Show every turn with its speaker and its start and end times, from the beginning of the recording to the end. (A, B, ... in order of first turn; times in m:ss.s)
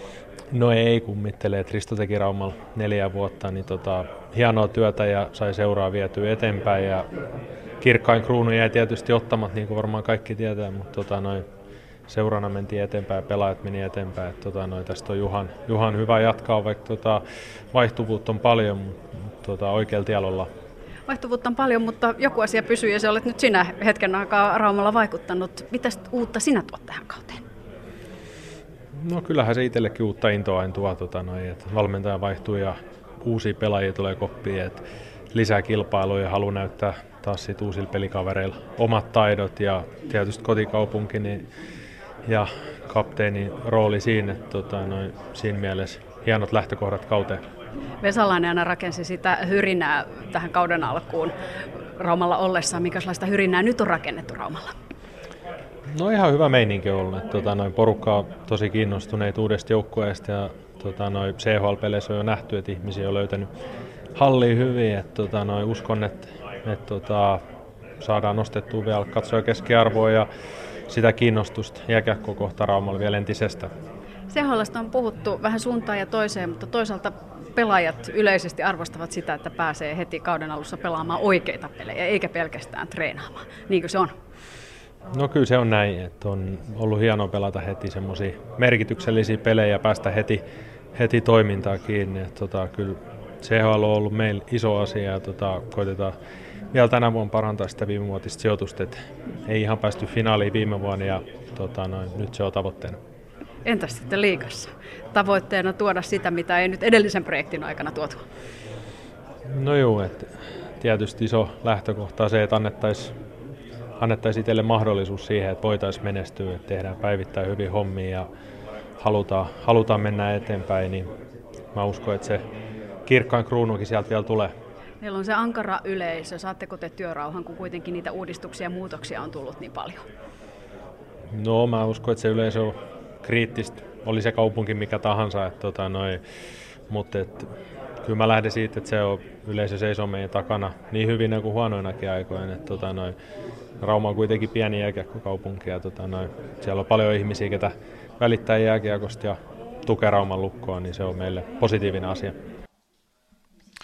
0:00.5-0:07.1 A
0:07.8-0:11.5 A
0:12.1-0:20.5 A
0:21.1-0:27.4 B
0:29.0-0:41.4 A
0:42.3-0:47.4 A
0:48.0-0:51.3 B
0:52.0-0:54.7 B
0:55.9-1:03.5 A
1:04.2-1:07.4 A
1:08.0-1:10.3 A
1:10.9-1:13.7 A
1:14.3-1:24.1 B
1:25.1-1:30.4 A
1:30.9-1:36.2 A
1:36.7-1:43.0 A
1:43.7-1:48.2 B
1:49.5-1:53.1 A
1:54.0-1:58.3 A
1:59.0-2:01.1 A
2:01.7-2:02.4 A
2:03.1-2:04.5 A
2:05.0-2:10.0 B
2:11.3-2:16.2 A
2:16.9-2:17.5 A
2:18.0-2:23.2 A
2:23.8-2:32.4 A